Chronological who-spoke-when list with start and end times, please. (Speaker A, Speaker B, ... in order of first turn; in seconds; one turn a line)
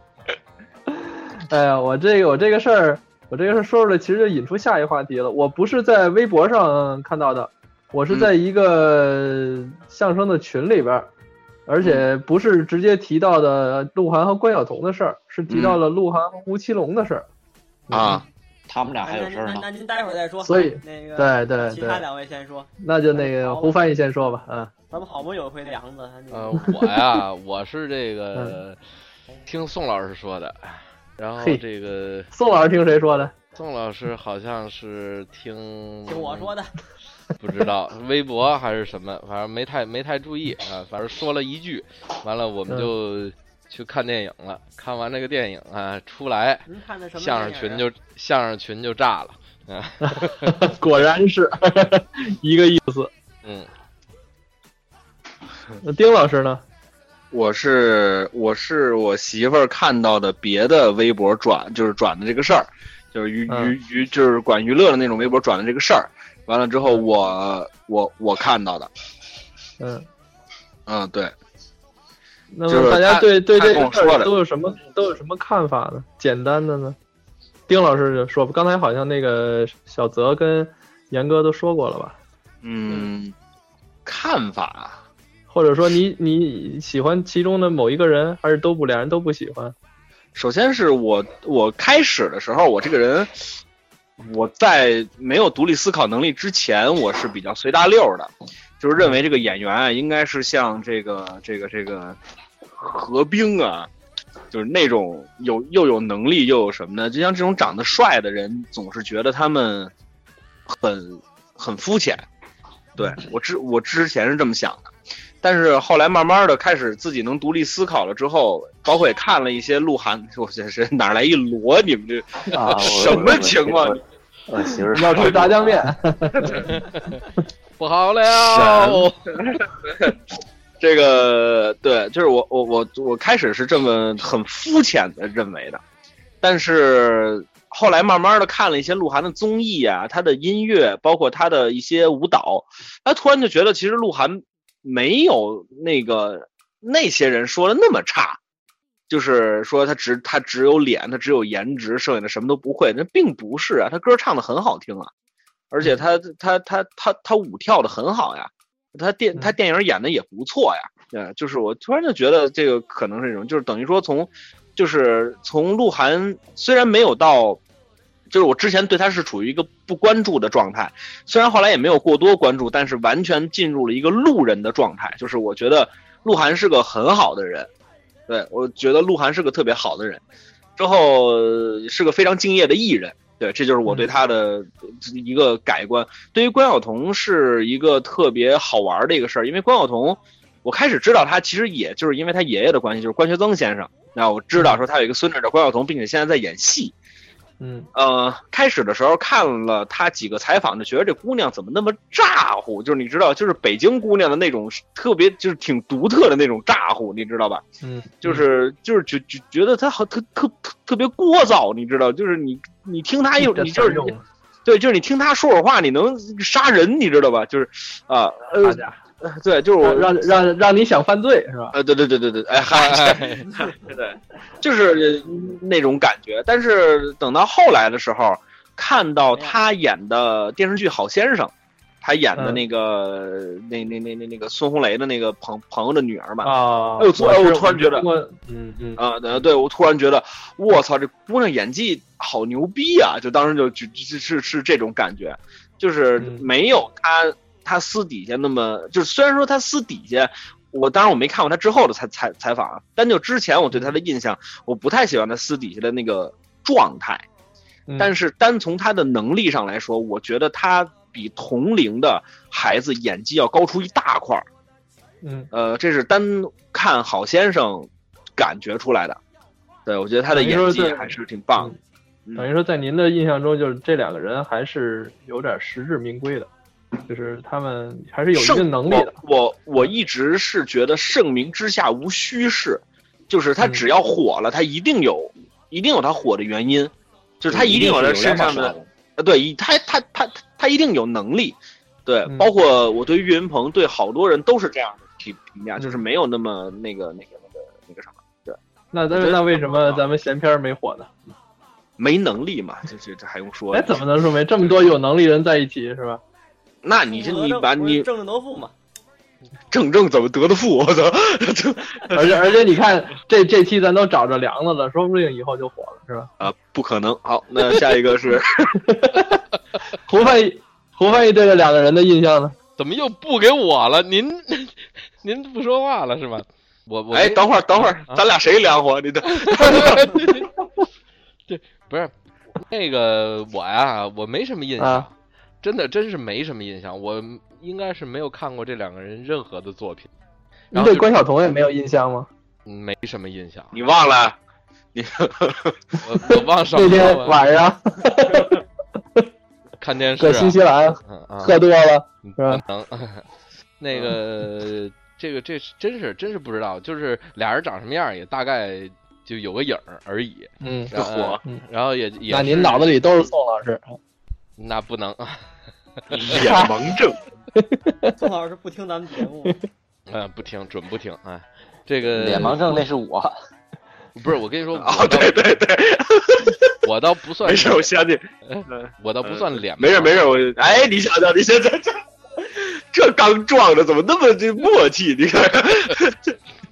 Speaker A: 1.0-11.1
Speaker A: 11.7-17.3
Speaker B: 15.5-15.8
Speaker A: 17.9-18.2
Speaker B: 17.9-18.2
Speaker C: 18.7-19.7
Speaker D: 19.0-23.8
Speaker A: 20.4-22.0
Speaker A: 22.8-24.7
Speaker D: 24.9-26.7
Speaker E: 26.3-28.8
Speaker E: 29.5-32.3
Speaker A: 32.3-33.3
Speaker E: 33.5-36.5
Speaker D: 36.1-36.7
Speaker E: 37.4-46.6
Speaker D: 46.7-47.9
Speaker E: 47.2-50.5
Speaker A: 50.1-53.1
Speaker E: 53.4-53.7
Speaker A: 55.8-56.6
Speaker B: 57.3-68.9
Speaker A: 63.5-63.8
Speaker A: 69.8-70.1
Speaker B: 70.9-71.3
Speaker A: 72.5-77.0
Speaker B: 72.7-74.3
Speaker A: 77.7-82.2
Speaker B: 82.6-83.3
Speaker B: 84.1-85.0
Speaker A: 85.5-89.8
Speaker B: 90.3-93.3
Speaker B: 94.2-102.2
Speaker B: 102.8-103.9
Speaker B: 104.5-109.9
Speaker B: 110.7-112.3
Speaker B: 113.0-114.9
Speaker B: 115.4-124.0
Speaker C: 122.5-126.0
Speaker A: 124.8-126.7
Speaker B: 125.2-125.5
Speaker B: 126.4-126.7
Speaker E: 126.7-127.2
Speaker E: 127.8-129.2
Speaker B: 128.3-130.2
Speaker B: 130.8-135.8
Speaker B: 136.4-148.4
Speaker B: 149.1-155.1
Speaker B: 155.7-167.6
Speaker B: 168.3-177.7
Speaker B: 178.3-180.2
Speaker B: 180.8-196.9
Speaker A: 194.6-194.8
Speaker A: 197.6-197.9
Speaker B: 197.9-207.7
Speaker A: 207.8-208.4
Speaker B: 208.2-214.1
Speaker A: 213.4-214.2
Speaker B: 214.7-220.2
Speaker A: 218.6-219.0
Speaker A: 219.8-221.7
Speaker B: 221.7-238.1
Speaker E: 222.7-223.5
Speaker D: 229.3-229.6
Speaker A: 232.3-232.6
Speaker A: 236.4-239.0
Speaker B: 239.0-257.2
Speaker A: 246.2-246.5
Speaker A: 257.9-258.1
Speaker B: 258.0-264.5
Speaker A: 265.2-265.5
Speaker B: 265.5-269.2
Speaker B: 269.9-271.7
Speaker A: 270.3-271.8
Speaker A: 272.4-276.5
Speaker A: 277.1-279.2
Speaker B: 278.4-298.6
Speaker C: 287.5-288.9
Speaker A: 298.9-301.1
Speaker B: 299.1-300.1
Speaker B: 302.0-304.0
Speaker A: 303.7-306.2
Speaker B: 306.8-308.1
Speaker D: 307.1-308.7
Speaker B: 309.7-312.4
Speaker A: 312.1-316.3
Speaker B: 316.4-318.7
Speaker A: 318.8-319.4
Speaker A: 320.1-322.6
Speaker E: 322.8-328.2
Speaker B: 327.1-330.3
Speaker E: 329.3-330.5
Speaker E: 331.5-340.1
Speaker A: 334.8-335.1
Speaker A: 340.7-342.3
Speaker E: 340.7-341.1
Speaker E: 342.7-343.8
Speaker B: 343.7-344.4
Speaker B: 344.9-345.8
Speaker E: 346.0-347.4
Speaker A: 346.3-348.6
Speaker E: 349.8-351.6
Speaker A: 350.2-352.6
Speaker E: 352.2-353.2
Speaker E: 353.8-362.9
Speaker A: 360.6-361.6
Speaker B: 360.9-361.4
Speaker A: 362.3-364.0
Speaker E: 364.6-365.4
Speaker E: 366.1-366.5
Speaker B: 366.1-367.2
Speaker A: 366.4-366.9
Speaker A: 367.6-368.2
Speaker D: 368.2-369.6
Speaker E: 370.1-372.8
Speaker C: 372.1-373.3
Speaker E: 374.2-375.5
Speaker B: 374.7-376.7
Speaker E: 376.8-377.9
Speaker B: 377.4-386.4
Speaker E: 378.5-380.2